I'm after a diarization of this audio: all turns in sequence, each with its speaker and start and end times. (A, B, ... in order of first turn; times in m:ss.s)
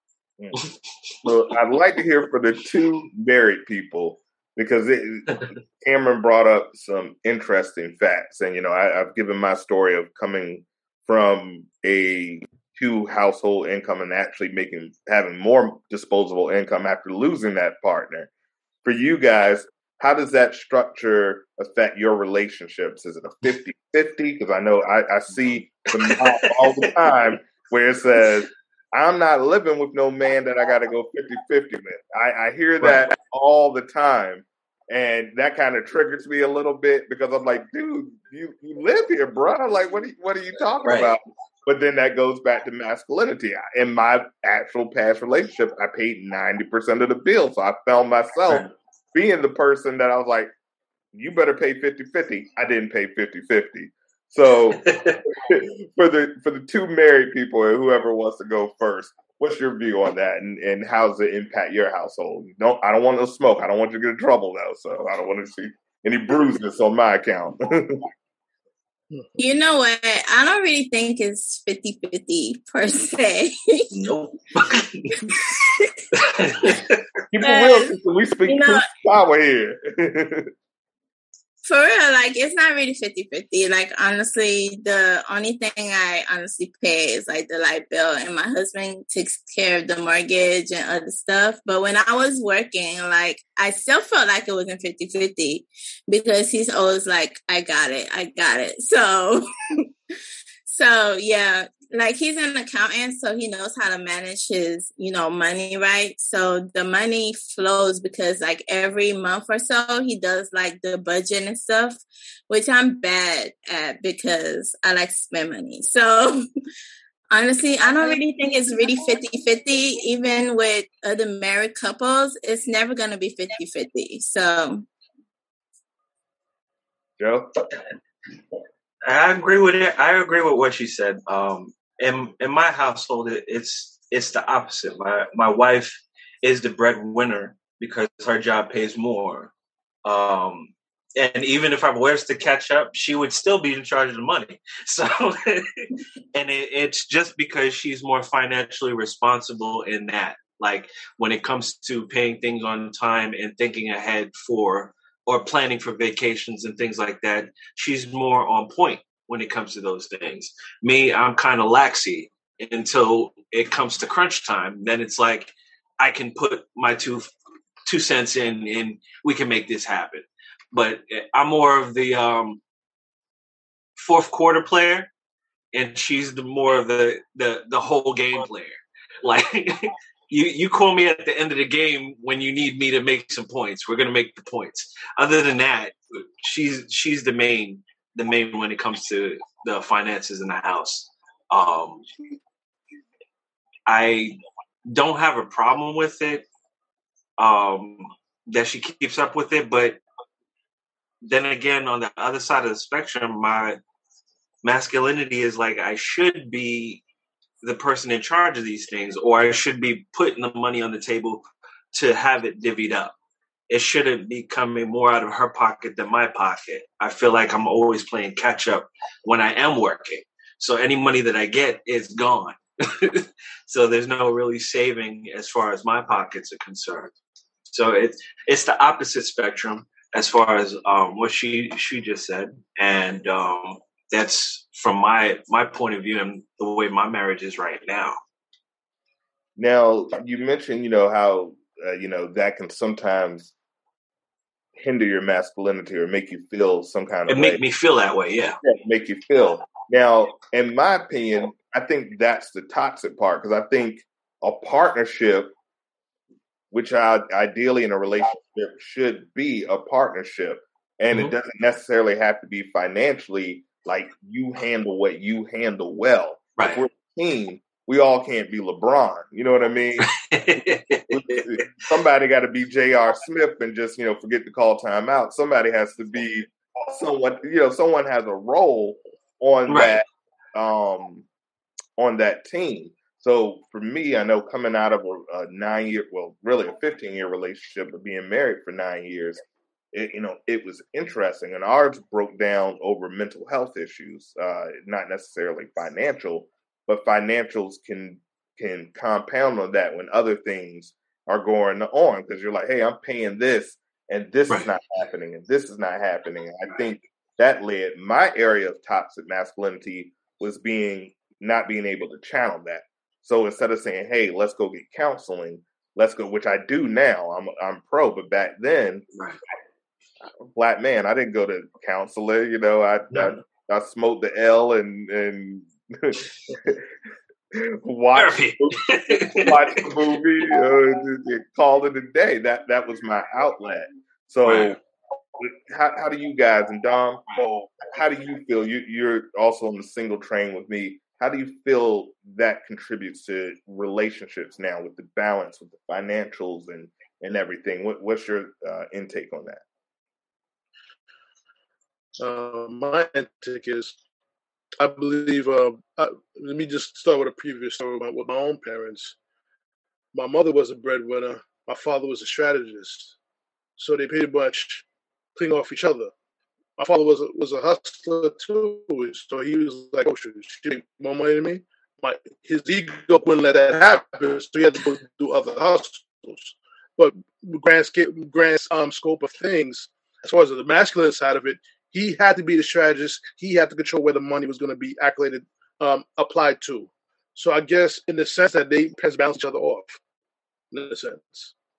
0:00.5-0:01.1 A
0:01.2-0:18.3 B
0:18.8-0:50.5 B
0:26.0-0:26.5 A
0:32.8-0:33.1 A
0:40.8-0:41.1 A
0:51.1-1:08.0 B
0:54.8-0:55.2 A
1:09.4-1:13.9 C
1:13.9-1:15.3 A
1:15.3-1:16.0 C
1:16.2-1:17.0 A
1:17.3-1:20.5 B
1:17.4-1:18.9 C
1:21.6-1:39.8 C
1:40.6-1:56.4 C
1:57.3-2:04.9 C
2:07.2-2:07.5 B
2:09.0-2:19.5 A
2:20.0-2:47.3 A
2:47.8-2:52.6 A
2:54.0-2:55.1 A
2:55.7-3:12.0 A
3:13.9-3:14.4 A
3:14.9-3:16.5 A
3:17.4-3:20.0 A
3:21.2-3:23.8 A
3:24.6-3:27.0 A
3:27.6-3:33.1 A
3:33.7-3:47.1 A
3:47.7-3:58.2 A
3:59.6-4:03.5 B
4:04.8-4:07.6 B
4:07.3-4:08.6 A
4:08.6-4:15.5 B
4:16.7-4:30.1 B
4:30.0-4:31.6 A
4:31.1-4:41.2 B
4:39.7-4:40.0 A
4:42.0-4:49.4 B
4:49.9-5:19.0 B
5:20.5-5:26.8 B
5:27.5-5:34.8 B
5:28.2-5:29.8 A
5:34.4-5:34.8 A
5:35.4-5:49.6 B
5:52.2-5:54.0 D
5:54.8-5:59.2 D
6:00.1-6:03.2 D
6:03.8-6:06.1 D
6:06.8-6:30.0 D
6:30.7-6:31.5 D